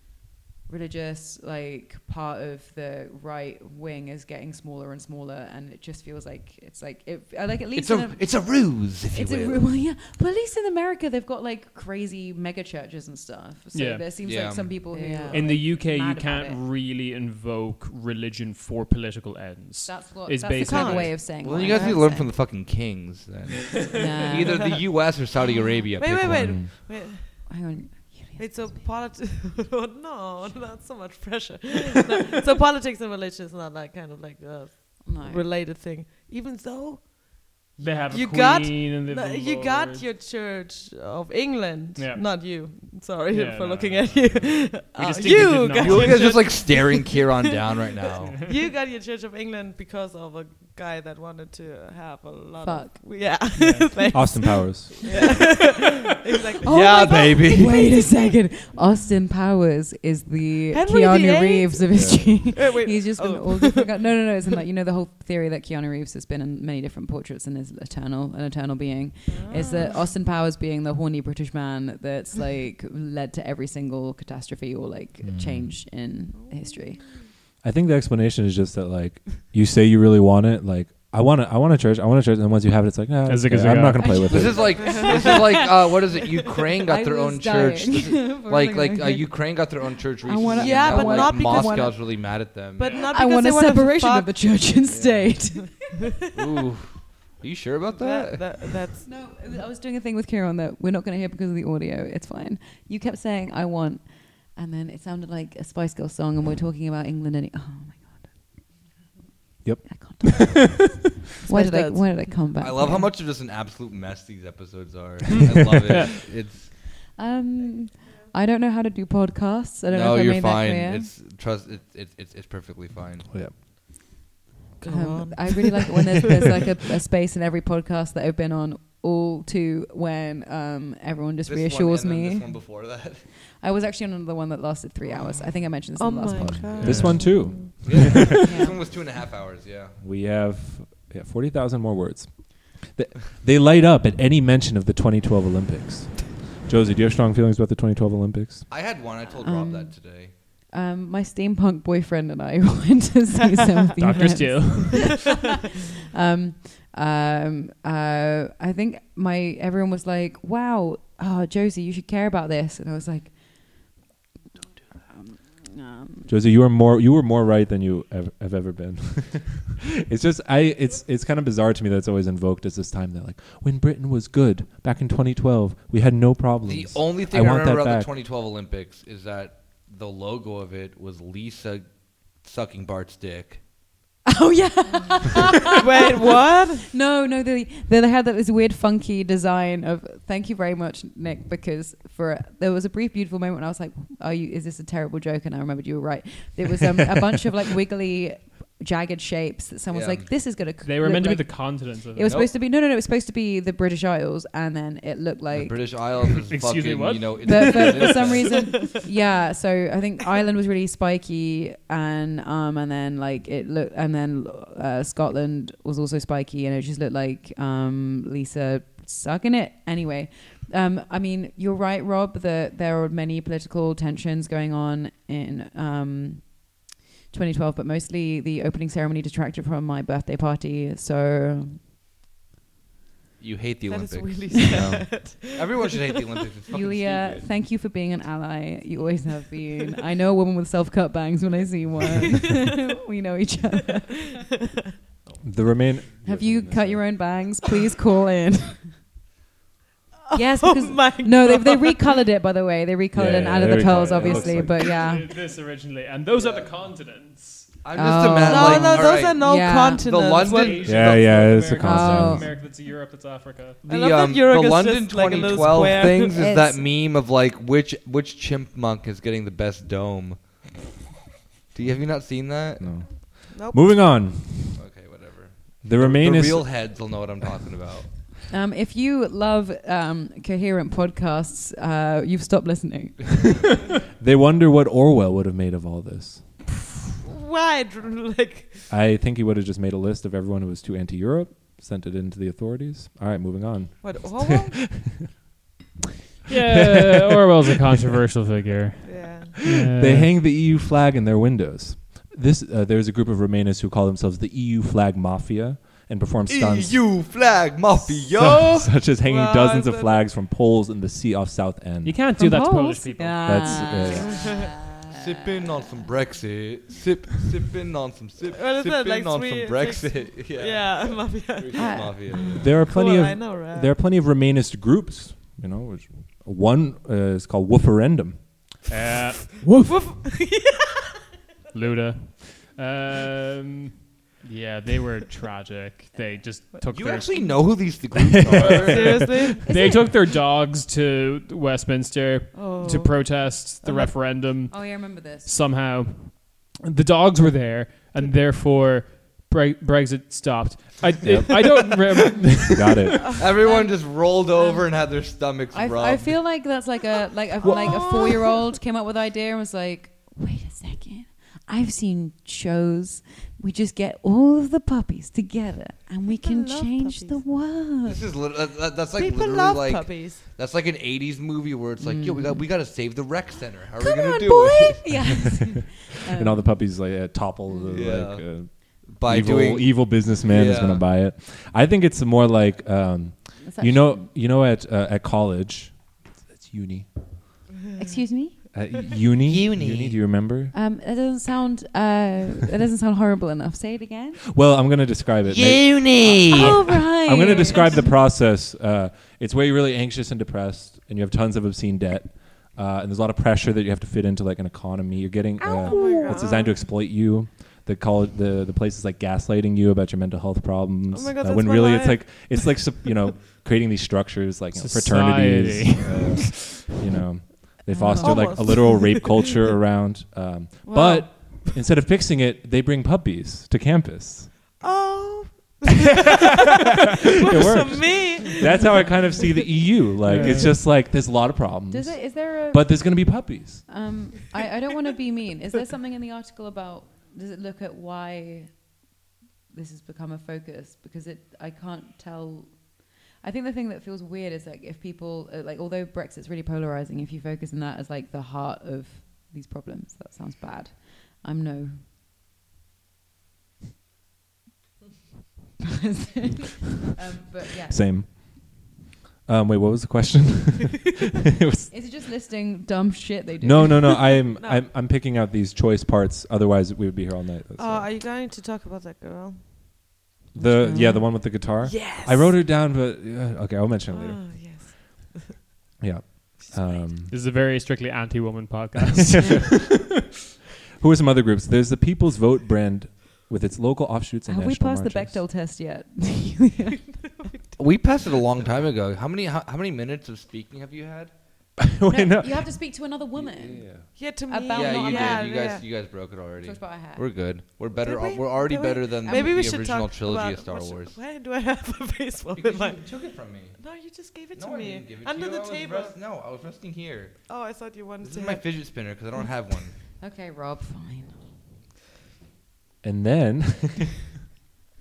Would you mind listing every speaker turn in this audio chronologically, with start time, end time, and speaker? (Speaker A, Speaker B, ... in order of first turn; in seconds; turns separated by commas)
Speaker A: 0.7-16.6, Speaker B: 7.8-9.7, Speaker C: 13.7-14.1, Speaker B: 14.2-14.8, Speaker D: 14.9-15.4, Speaker C: 15.3-21.2, Speaker A: 19.9-22.3, Speaker D: 20.6-22.0, Speaker B: 21.4-26.5, Speaker A: 23.9-24.8, Speaker D: 24.5-24.8, Speaker D: 25.6-27.6, Speaker E: 26.1-26.7, Speaker A: 27.3-28.8, Speaker D: 28.4-57.1, Speaker A: 35.0-35.5, Speaker C: 37.8-40.0, Speaker C: 42.0-42.6, Speaker C: 43.3-46.5, Speaker B: 45.8-48.4, Speaker A: 52.6-53.3, Speaker C: 53.5-54.4, Speaker E: 54.1-55.0, Speaker A: 56.6-77.0, Speaker B: 56.6-57.9, Speaker D: 60.7-64.1, Speaker E: 61.9-62.5, Speaker D: 69.3-70.1, Speaker E: 75.2-75.8, Speaker D: 76.3-77.1, Speaker E: 77.6-84.8, Speaker C: 83.2-84.1, Speaker A: 84.0-89.7, Speaker B: 84.3-93.0, Speaker D: 84.7-85.6, Speaker A: 90.2-92.0, Speaker D: 90.5-92.1, Speaker D: 92.8-94.5, Speaker C: 92.9-93.1, Speaker A: 93.0-96.4, Speaker B: 94.9-95.3, Speaker D: 95.6-96.3, Speaker B: 96.4-98.5, Speaker D: 98.0-99.1, Speaker A: 99.0-108.3, Speaker E: 109.6-110.7, Speaker A: 109.9-113.1, Speaker D: 111.5-112.5, Speaker B: 112.6-116.7, Speaker A: 117.2-121.1, Speaker B: 119.9-123.3, Speaker D: 124.8-126.0, Speaker A: 124.8-132.6, Speaker B: 131.5-133.2, Speaker A: 133.4-136.9, Speaker D: 136.0-137.8, Speaker E: 136.4-138.4, Speaker B: 136.8-137.2, Speaker B: 137.8-140.0, Speaker A: 138.2-138.8, Speaker E: 140.0-148.7, Speaker B: 148.7-150.3, Speaker A: 149.3-150.0, Speaker A: 150.7-155.5, Speaker C: 154.0-155.2, Speaker D: 154.9-155.2, Speaker A: 156.1-163.9, Speaker A: 165.1-166.3, Speaker E: 166.3-178.1, Speaker B: 176.7-183.6, Speaker A: 184.3-206.1, Speaker D: 185.7-186.9, Speaker B: 199.9-200.3, Speaker C: 200.8-202.4, Speaker B: 202.2-202.5, Speaker B: 205.5-208.7, Speaker C: 206.5-208.3, Speaker A: 207.4-231.8, Speaker B: 233.4-237.5, Speaker D: 233.9-236.4, Speaker A: 234.5-234.9, Speaker A: 236.7-244.5, Speaker E: 245.4-247.2, Speaker A: 246.2-248.9, Speaker D: 250.3-252.1, Speaker A: 250.3-255.3, Speaker E: 253.1-254.8, Speaker C: 253.7-257.7, Speaker B: 256.4-256.7, Speaker B: 257.8-259.5, Speaker A: 257.9-260.1, Speaker D: 258.4-260.9, Speaker B: 260.0-261.7, Speaker C: 260.4-263.8, Speaker E: 260.8-262.6, Speaker A: 261.8-262.5, Speaker B: 263.8-270.6, Speaker D: 263.9-266.4, Speaker A: 266.2-266.9, Speaker B: 271.7-273.0, Speaker E: 272.8-274.8, Speaker D: 273.5-274.3, Speaker B: 274.7-278.1, Speaker E: 275.8-276.8, Speaker A: 278.5-283.6, Speaker E: 284.2-286.6, Speaker D: 287.2-288.9, Speaker E: 288.9-295.3, Speaker D: 294.0-294.8, Speaker C: 296.5-300.4, Speaker E: 296.5-297.5, Speaker D: 299.0-299.6, Speaker E: 299.7-307.2, Speaker B: 306.5-308.9, Speaker E: 308.0-312.2, Speaker D: 309.2-310.2, Speaker C: 312.0-313.8, Speaker A: 312.4-315.2, Speaker E: 313.4-314.4, Speaker D: 314.1-314.7, Speaker B: 315.0-322.8, Speaker D: 318.5-322.1, Speaker A: 321.7-322.7, Speaker E: 322.6-328.4, Speaker D: 322.8-323.9, Speaker C: 328.9-329.7, Speaker D: 329.7-331.2, Speaker C: 331.7-337.8, Speaker B: 336.9-339.3, Speaker E: 338.1-340.1, Speaker D: 338.6-339.7, Speaker C: 339.6-353.4, Speaker A: 339.7-339.9, Speaker D: 342.5-343.1, Speaker A: 343.8-345.5, Speaker E: 351.2-351.6, Speaker E: 352.7-353.3, Speaker B: 353.4-356.4, Speaker A: 353.6-354.9, Speaker A: 355.7-368.2, Speaker D: 366.3-367.5, Speaker B: 368.0-375.3, Speaker D: 369.1-370.5, Speaker A: 372.0-372.7, Speaker A: 374.0-376.8, Speaker E: 376.3-387.1, Speaker A: 377.7-378.0, Speaker B: 377.9-381.1, Speaker A: 383.6-384.2, Speaker A: 387.9-388.6, Speaker E: 388.7-390.7, Speaker B: 389.4-390.2, Speaker A: 390.7-394.4, Speaker E: 394.5-424.6, Speaker B: 395.5-397.0, Speaker A: 396.5-398.1, Speaker A: 405.6-406.5, Speaker D: 405.8-406.9, Speaker D: 411.1-413.1, Speaker C: 414.8-416.5, Speaker A: 417.9-418.6, Speaker D: 418.2-419.4, Speaker A: 420.9-421.4, Speaker D: 424.8-429.7, Speaker E: 427.4-433.9, Speaker C: 430.2-430.8, Speaker A: 431.9-438.9, Speaker A: 439.7-452.0, Speaker A: 455.9-458.1, Speaker E: 457.9-458.9, Speaker E: 459.5-461.9, Speaker A: 461.9-464.3, Speaker E: 463.6-468.1, Speaker D: 464.5-464.9, Speaker D: 467.8-469.6, Speaker E: 470.6-474.5, Speaker A: 470.6-471.4, Speaker D: 471.8-472.6, Speaker D: 474.1-475.6, Speaker E: 476.0-477.3, Speaker D: 476.6-476.9, Speaker C: 477.3-479.7, Speaker E: 479.0-480.3, Speaker E: 481.0-485.4, Speaker A: 484.5-487.1, Speaker B: 487.8-491.3, Speaker E: 491.8-492.8, Speaker A: 492.1-493.9, Speaker E: 493.4-494.1, Speaker D: 494.1-495.8, Speaker A: 494.5-495.5, Speaker B: 494.7-501.2, Speaker A: 496.6-497.3, Speaker D: 498.0-503.1, Speaker A: 499.2-499.7, Speaker B: 502.6-503.8, Speaker D: 503.8-506.2, Speaker B: 504.6-507.4, Speaker D: 507.5-508.6, Speaker B: 508.2-509.9, Speaker A: 510.2-511.3, Speaker E: 513.0-514.2